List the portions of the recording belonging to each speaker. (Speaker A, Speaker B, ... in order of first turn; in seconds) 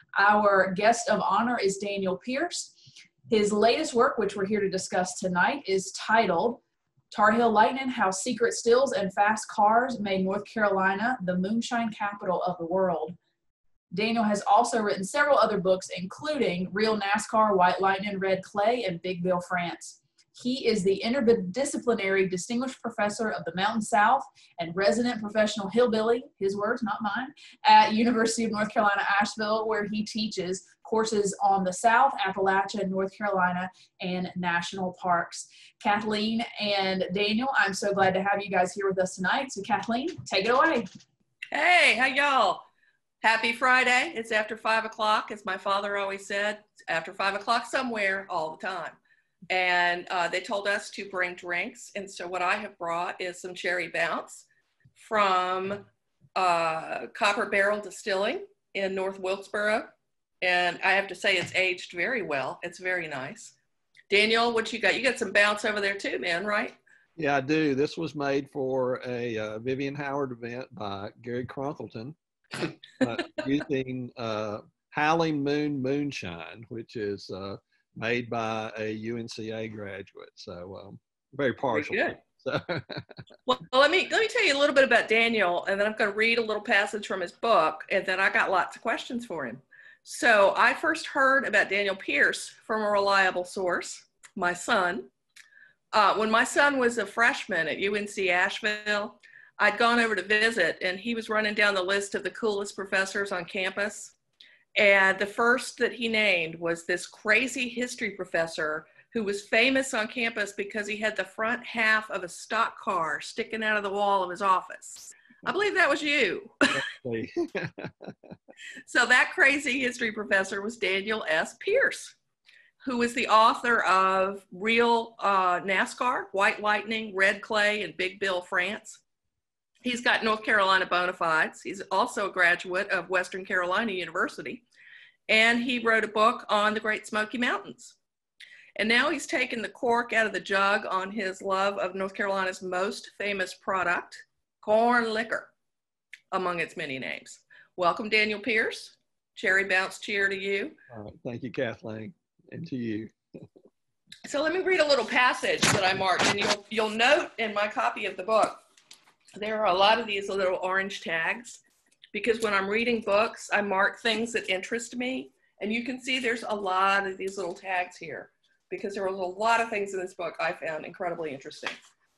Speaker A: 0.1-2.7, 3.3-13.2, 13.9-40.8
Speaker B: 41.5-42.6, 43.2-49.0, 49.5-54.5, 55.0-63.5, 64.1-66.8, 81.7-82.2, 83.5-95.1, 95.9-104.1, 104.7-116.8, 118.8-122.1, 122.8-129.0, 129.8-134.6, 135.3-138.0, 138.8-145.5, 146.3-150.8, 154.2-158.6, 159.3-161.6, 162.1-171.8
Speaker C: 67.2-83.1, 116.7-118.2, 150.9-153.1